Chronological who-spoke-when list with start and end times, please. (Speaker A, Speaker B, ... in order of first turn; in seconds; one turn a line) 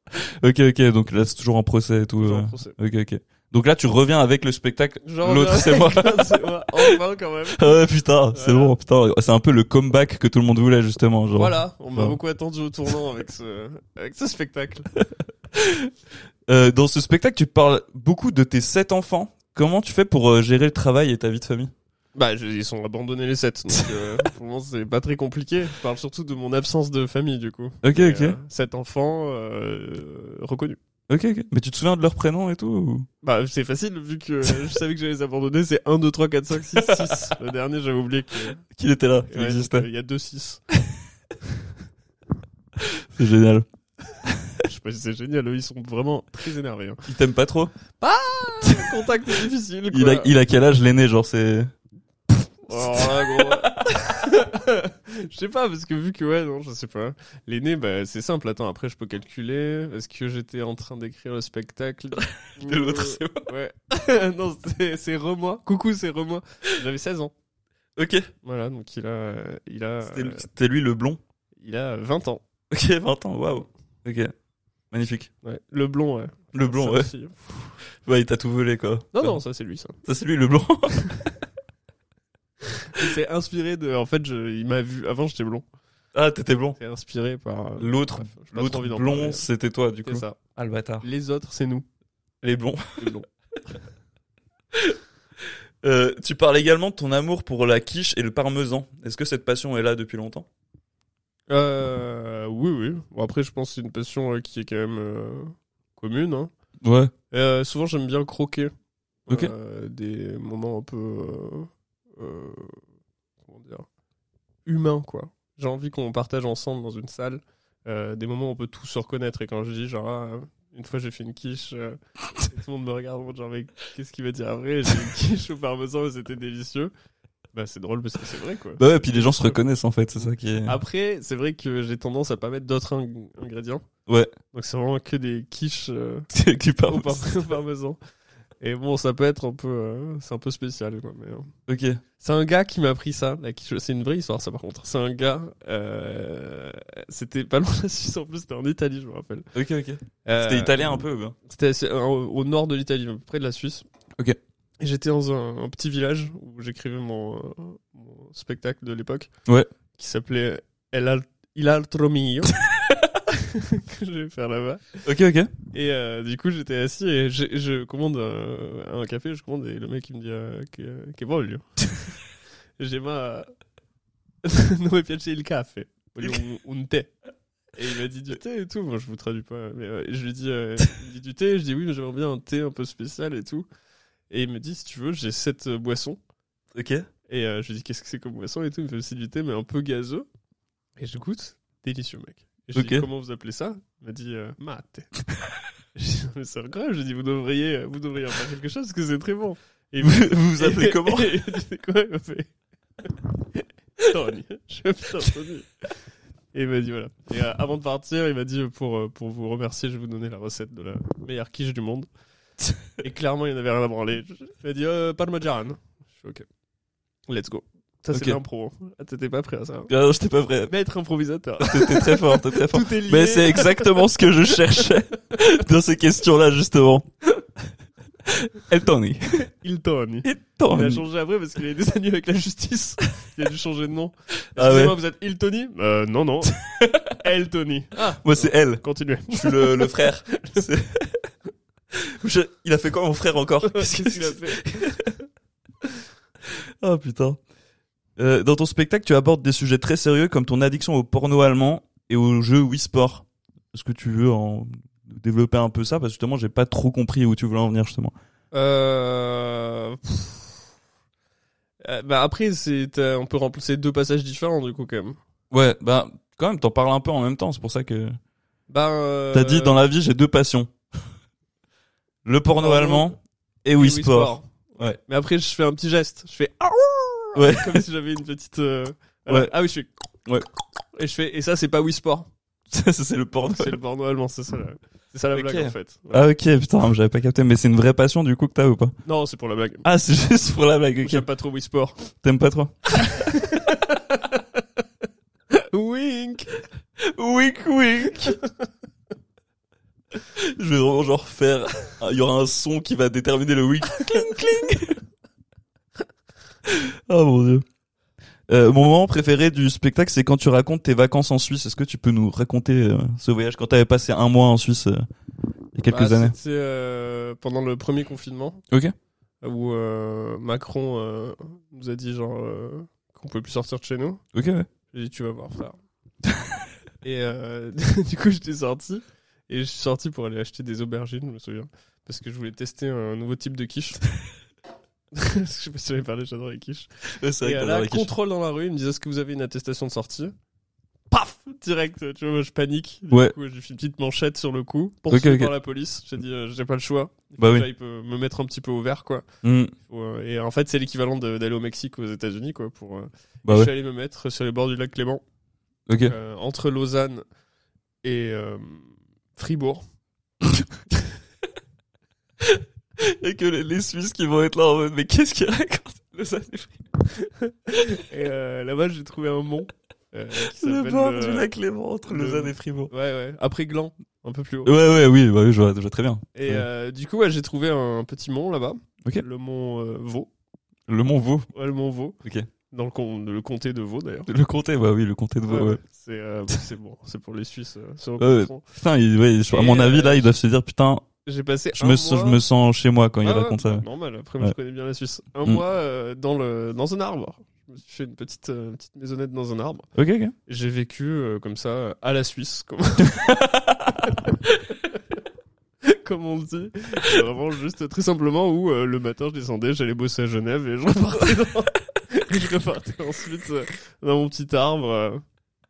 Speaker A: 0.2-7.0
Speaker B: 2.2-2.8
Speaker B: 5.0-7.8
Speaker A: 7.5-12.2
Speaker B: 8.3-8.7
Speaker B: 11.3-14.9
Speaker A: 15.5-15.9
Speaker A: 16.5-21.7
Speaker B: 22.1-30.8
Speaker A: 27.8-28.4
Speaker A: 31.1-33.1
Speaker B: 33.2-38.6
Speaker A: 36.8-37.3
Speaker A: 38.7-39.9
Speaker B: 39.3-40.6
Speaker A: 42.8-43.6
Speaker B: 44.6-47.0
Speaker A: 47.1-47.7
Speaker B: 48.0-50.3
Speaker A: 48.6-49.0
Speaker A: 49.9-51.7
Speaker B: 52.7-67.3
Speaker A: 52.7-54.0
Speaker A: 62.2-63.5
Speaker A: 68.0-68.3
Speaker B: 68.4-70.5
Speaker A: 70.0-71.2
Speaker B: 71.6-72.4
Speaker A: 72.7-74.3
Speaker A: 74.9-75.3
Speaker B: 75.4-77.4
Speaker A: 76.5-77.1
Speaker A: 78.0-79.4
Speaker B: 79.1-80.0
Speaker A: 80.0-81.1
Speaker B: 82.8-85.6
Speaker A: 86.1-86.8
Speaker B: 86.8-89.5
Speaker A: 87.8-91.0
Speaker B: 90.0-90.4
Speaker B: 91.0-91.8
Speaker A: 92.4-93.1
Speaker B: 93.0-93.2
Speaker A: 95.8-100.5
Speaker B: 101.5-106.5
Speaker A: 106.8-107.1
Speaker B: 107.3-108.7
Speaker B: 109.3-112.8
Speaker A: 109.3-109.5
Speaker B: 113.4-113.8
Speaker B: 114.7-126.9
Speaker B: 127.5-129.6
Speaker A: 128.8-130.8
Speaker B: 130.7-133.8
Speaker A: 134.1-134.3
Speaker B: 134.5-136.3
Speaker A: 136.3-137.4
Speaker B: 136.8-138.0
Speaker B: 138.6-141.5
Speaker A: 141.7-142.0
Speaker B: 142.2-149.4
Speaker A: 149.5-151.3
Speaker B: 150.2-150.9
Speaker B: 151.4-153.8
Speaker B: 154.8-159.3
Speaker B: 159.9-162.6
Speaker B: 163.3-165.0
Speaker A: 165.0-165.5
Speaker B: 165.7-172.2
Speaker B: 172.8-173.5
Speaker B: 174.4-177.1
Speaker B: 177.7-183.7
Speaker B: 184.3-186.2
Speaker A: 186.7-187.1
Speaker B: 187.3-190.3
Speaker B: 191.0-195.1
Speaker A: 192.7-193.1
Speaker B: 195.9-202.5
Speaker A: 200.0-201.4
Speaker B: 203.0-205.7
Speaker B: 206.5-212.1
Speaker B: 213.0-216.4
Speaker B: 217.3-219.9
Speaker A: 218.1-218.4
Speaker A: 219.9-220.7
Speaker B: 220.7-224.8
Speaker A: 221.6-227.1
Speaker A: 228.2-229.4
Speaker B: 229.5-236.5
Speaker A: 230.2-231.0
Speaker A: 234.5-235.0
Speaker A: 236.5-237.2
Speaker B: 237.2-240.6
Speaker A: 238.2-241.3
Speaker A: 242.0-245.1
Speaker B: 243.6-244.9
Speaker A: 246.8-247.4
Speaker A: 248.2-258.1
Speaker B: 258.5-260.6
Speaker B: 261.8-265.2
Speaker A: 265.5-268.2
Speaker B: 268.7-269.8
Speaker A: 269.3-270.7
Speaker A: 272.2-275.0
Speaker B: 272.6-273.1
Speaker B: 273.8-279.9
Speaker A: 277.3-277.8
Speaker A: 279.3-279.5
Speaker B: 280.9-282.3
Speaker A: 282.7-283.8
Speaker B: 283.4-286.2
Speaker A: 285.3-288.9
Speaker B: 289.0-289.9
Speaker A: 289.8-291.2
Speaker B: 291.0-292.0
Speaker A: 292.2-293.2
Speaker B: 293.0-294.4
Speaker B: 295.5-296.6
Speaker A: 297.0-298.4
Speaker A: 300.3-305.0
Speaker A: 306.6-307.6
Speaker A: 308.5-315.1
Speaker A: 315.7-316.4
Speaker B: 315.9-318.6
Speaker B: 319.4-324.2
Speaker A: 324.3-324.7
Speaker B: 324.9-325.8
Speaker B: 327.0-334.0
Speaker B: 335.1-336.9
Speaker A: 337.2-338.1
Speaker B: 337.4-340.3
Speaker B: 341.1-349.2
Speaker A: 343.1-343.3
Speaker A: 345.1-345.5
Speaker A: 347.4-347.7
Speaker A: 349.4-349.7
Speaker B: 349.9-355.2
Speaker A: 353.4-353.7
Speaker A: 355.9-356.1
Speaker B: 356.0-357.2
Speaker B: 358.0-359.8
Speaker A: 362.4-366.9
Speaker B: 367.2-371.5
Speaker A: 370.4-372.9
Speaker B: 372.1-374.7
Speaker A: 374.6-376.6
Speaker B: 376.3-380.3
Speaker A: 380.9-381.5
Speaker B: 381.5-382.2
Speaker A: 382.2-382.5
Speaker B: 382.7-384.3
Speaker A: 384.3-385.8
Speaker B: 385.5-388.6
Speaker A: 388.2-391.1
Speaker B: 389.5-390.3
Speaker B: 391.2-392.4
Speaker A: 391.8-393.9
Speaker B: 393.2-399.9
Speaker A: 399.9-400.3
Speaker B: 400.5-403.3
Speaker A: 403.0-404.1
Speaker B: 404.0-404.3
Speaker B: 405.8-415.2